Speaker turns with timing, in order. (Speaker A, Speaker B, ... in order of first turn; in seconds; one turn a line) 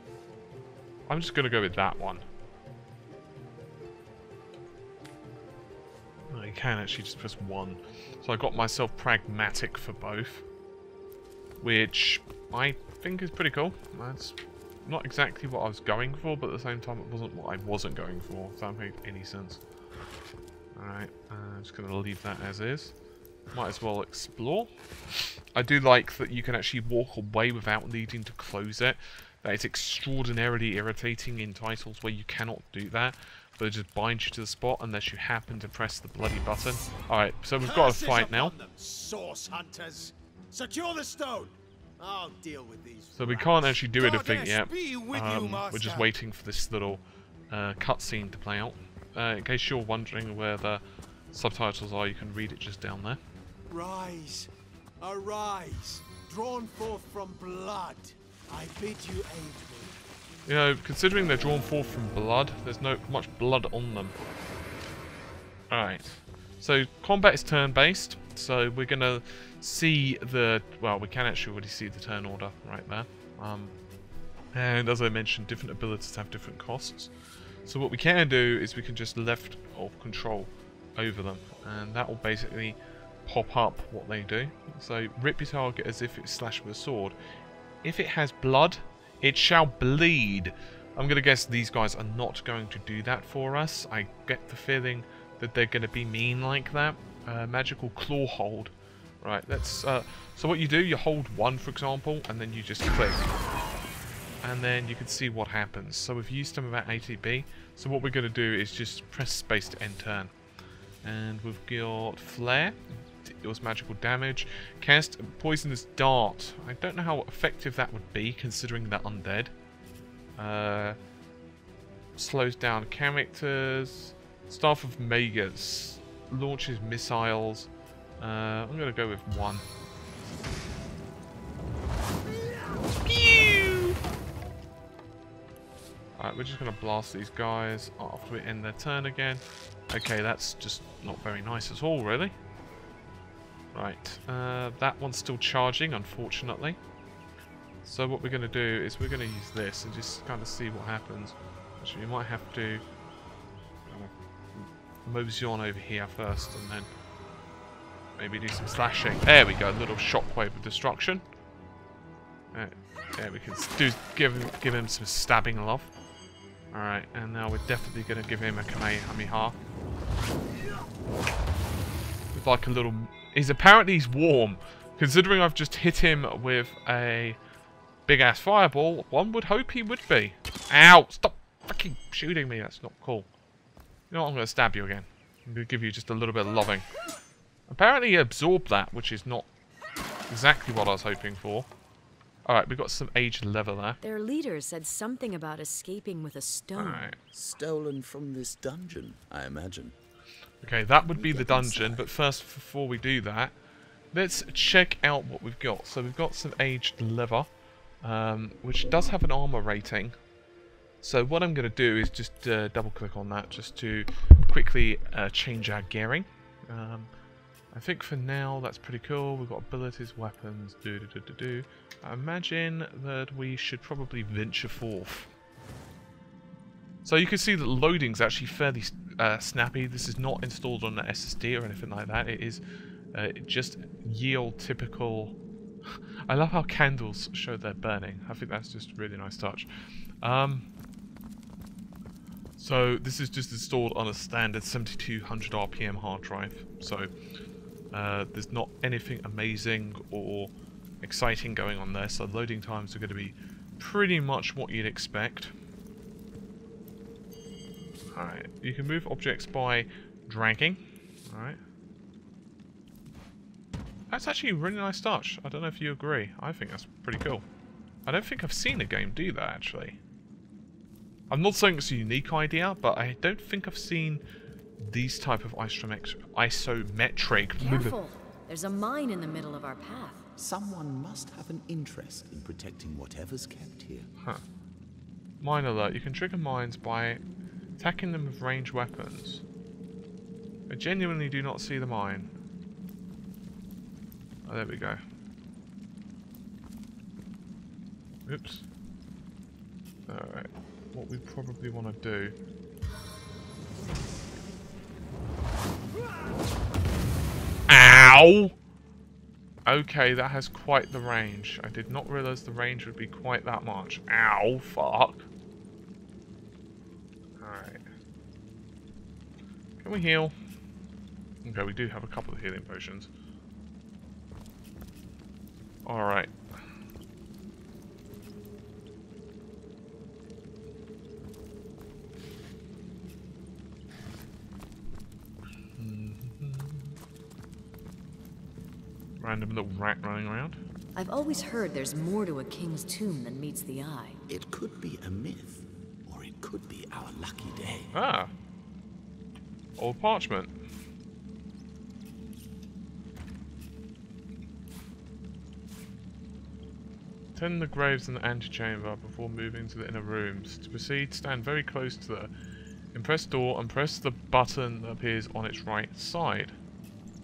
Speaker A: 1.1-2.2
Speaker A: 6.3-10.4
Speaker A: 11.6-19.6
Speaker A: 20.8-22.9
Speaker A: 23.5-24.7
Speaker A: 25.5-38.5
Speaker B: 37.6-46.1
Speaker A: 43.1-53.2
Speaker B: 53.7-54.5
Speaker B: 55.0-60.0
Speaker A: 60.5-64.2
Speaker A: 65.7-73.7
Speaker A: 74.5-77.1
Speaker A: 77.7-87.2
Speaker A: 87.8-103.3
Speaker A: 104.4-110.3
Speaker A: 111.0-119.5
Speaker A: 120.4-121.0
Speaker A: 122.2-129.6
Speaker A: 133.0-134.0
Speaker A: 136.2-142.3
Speaker A: 143.7-146.8
Speaker A: 147.8-152.8
Speaker A: 153.9-156.9
Speaker A: 158.2-161.2
Speaker A: 162.5-165.9
Speaker A: 166.7-169.6
Speaker A: 172.3-177.4
Speaker A: 178.1-183.3
Speaker A: 184.1-186.8
Speaker A: 187.7-189.5
Speaker A: 190.3-191.7
Speaker A: 192.4-194.0
Speaker C: 194.0-197.1
Speaker A: 196.8-197.2
Speaker D: 197.3-199.9
Speaker A: 200.6-203.5
Speaker D: 201.0-202.2
Speaker A: 204.1-207.5
Speaker A: 208.0-210.2
Speaker A: 211.0-217.1
Speaker A: 217.7-225.3
Speaker A: 227.0-232.6
Speaker A: 233.1-235.4
Speaker A: 236.3-239.7
Speaker A: 240.2-240.7
Speaker A: 242.6-247.1
Speaker A: 247.9-255.5
Speaker A: 258.1-261.6
Speaker A: 264.1-267.4
Speaker A: 268.1-270.0
Speaker A: 271.3-274.2
Speaker A: 274.8-278.0
Speaker C: 277.6-280.3
Speaker D: 280.4-284.1
Speaker A: 285.4-287.2
Speaker A: 287.8-289.4
Speaker A: 290.7-292.3
Speaker A: 294.4-295.0
Speaker A: 298.2-298.6
Speaker A: 300.1-302.3
Speaker A: 307.7-308.5
Speaker A: 309.6-315.3
Speaker A: 317.4-317.8
Speaker A: 319.8-320.3
Speaker A: 321.4-323.1
Speaker A: 325.9-326.3
Speaker A: 335.8-337.0
Speaker A: 339.2-340.6
Speaker C: 340.9-344.2
Speaker D: 344.3-347.9
Speaker A: 347.9-348.3
Speaker A: 349.8-350.5
Speaker A: 357.4-362.3
Speaker A: 362.9-366.5